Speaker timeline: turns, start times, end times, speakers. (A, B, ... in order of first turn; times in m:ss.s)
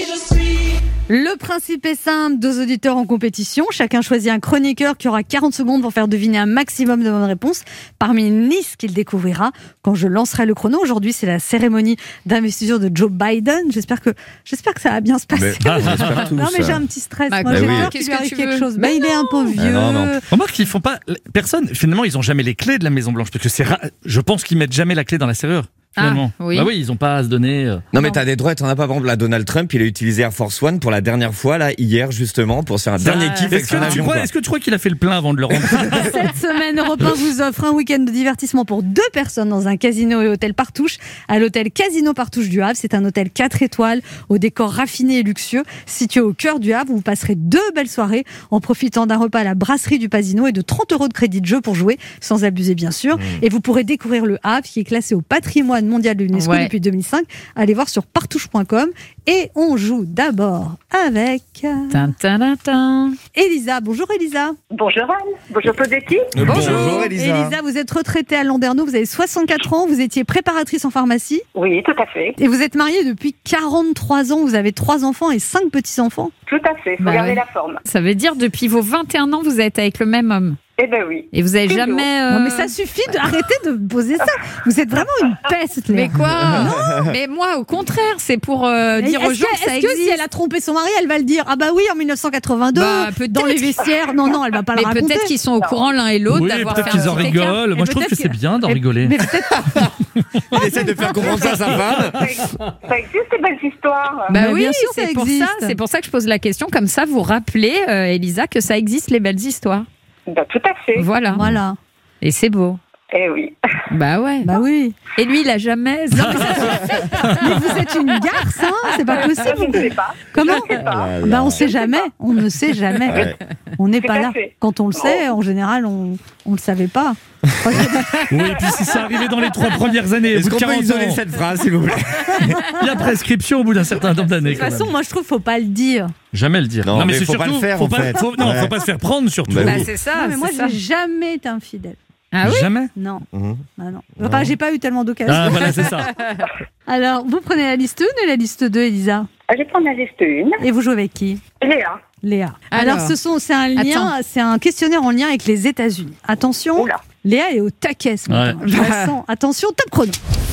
0:01.1-0:20.2 A
0:15.3-0:16.8 B
0:15.6-0:16.2 C
0:17.3-0:19.4 D
0:17.5-0:17.9 B
0:19.5-0:20.2 B
0:20.3-0:27.8 C
0:26.0-0:26.7 D
0:27.9-0:34.3 B
0:33.0-0:36.2 C
0:33.2-0:33.8 D
0:35.6-0:36.0 B
0:35.9-1:02.0 A
0:53.2-0:53.4 B
0:56.3-0:56.7 D
1:01.9-1:03.2 D
1:03.3-1:04.6 A
1:04.7-1:06.3 E
1:06.3-1:07.6 B
1:06.4-1:11.4 A
1:06.4-1:07.1 D
1:11.5-1:12.4 E
1:12.4-1:16.3 A
1:16.5-1:17.8 E
1:17.0-1:20.6 D
1:20.8-1:22.1 E
1:21.3-1:23.1 D
1:22.3-1:26.9 A
1:25.9-1:30.2 D
1:26.4-1:27.1 B
1:29.0-1:35.3 A
1:32.7-1:33.9 D
1:34.7-1:37.6 D
1:35.6-1:35.9 E
1:36.3-1:39.2 C
1:37.5-1:39.9 A
1:39.6-1:39.9 B
1:40.5-1:42.2 B
1:41.3-1:44.3 E
1:44.3-1:49.8 D
1:44.3-1:45.8 A
1:50.3-1:51.1 E
1:51.0-1:51.4 D
1:51.3-1:51.8 A
1:52.2-1:52.8 D
1:53.1-1:53.5 E
1:53.9-1:54.5 D
1:54.4-1:55.0 A
1:55.2-1:57.3 D
1:56.2-2:08.5 A
1:59.1-2:02.1 E
2:00.8-2:01.7 B
2:03.1-2:03.4 B
2:04.0-2:05.2 E
2:08.3-2:11.2 C
2:10.3-2:12.6 B
2:12.6-2:14.9 C
2:14.4-2:16.1 A
2:16.3-2:19.9 C
2:16.8-2:18.8 B
2:19.5-2:19.9 B
2:19.6-2:20.8 D
2:20.1-2:22.0 A
2:22.3-2:22.7 D
2:22.4-2:22.9 C
2:23.0-2:23.2 A
2:23.3-2:23.6 B
2:23.8-2:26.0 A
2:24.2-2:24.5 B
2:25.3-2:26.1 C
2:26.9-2:29.3 A
2:29.5-2:30.6 E
2:30.6-2:31.4 A
2:31.6-2:32.0 E
2:32.2-2:40.2 A
2:32.7-2:33.2 D
2:33.8-2:34.1 D
2:36.8-2:37.0 E
2:38.3-2:38.6 C
2:38.7-2:39.1 D